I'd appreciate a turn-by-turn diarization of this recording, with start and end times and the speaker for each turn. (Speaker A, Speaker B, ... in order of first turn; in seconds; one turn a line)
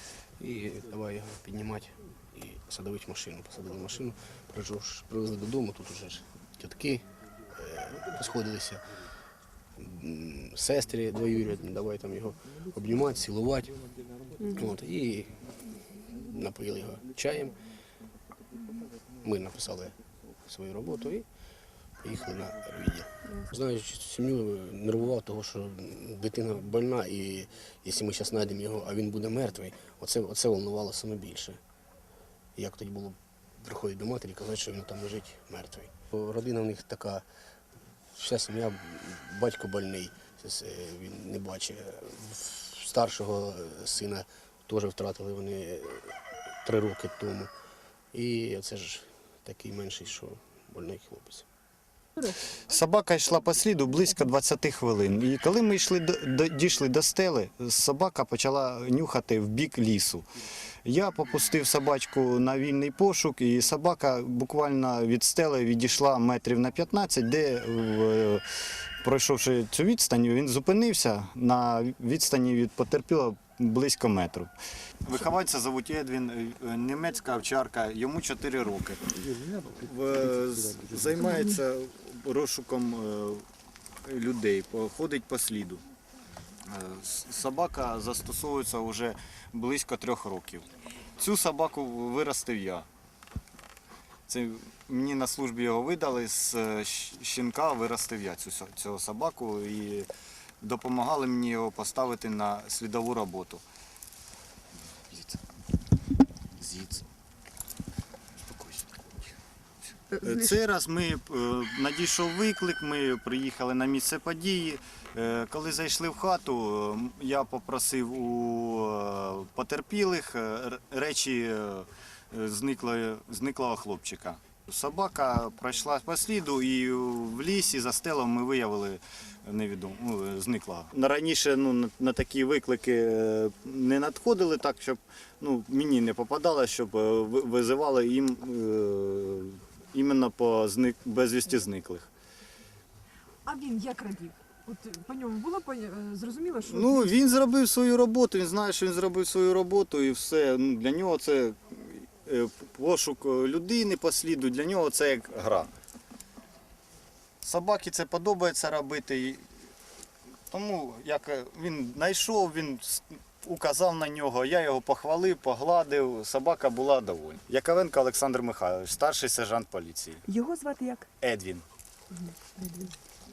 Speaker A: 0.4-8.8
Speaker A: 9.8-13.8
Speaker A: 14.4-15.4
Speaker A: 16.1-17.6
Speaker A: 19.2-21.2
Speaker A: 22.0-31.6
Speaker A: 32.5-37.2
Speaker A: 38.1-47.5
Speaker A: 48.1-51.5
Speaker B: 52.7-60.2
Speaker B: 60.9-68.4
Speaker B: 69.0-74.5
Speaker B: 75.0-79.0
Speaker B: 79.8-83.4
Speaker B: 84.0-85.8
Speaker B: 86.7-90.7
Speaker B: 91.2-92.8
Speaker B: 94.3-100.1
Speaker B: 100.6-103.6
Speaker B: 105.1-105.4
Speaker B: 106.6-107.0
Speaker B: 108.5-109.3
Speaker B: 110.2-142.1
Speaker C: 143.4-147.2
Speaker B: 146.6-155.7
Speaker B: 157.4-159.4
Speaker B: 160.5-170.2
Speaker C: 170.3-171.1
Speaker B: 171.2-171.6
Speaker C: 172.1-172.9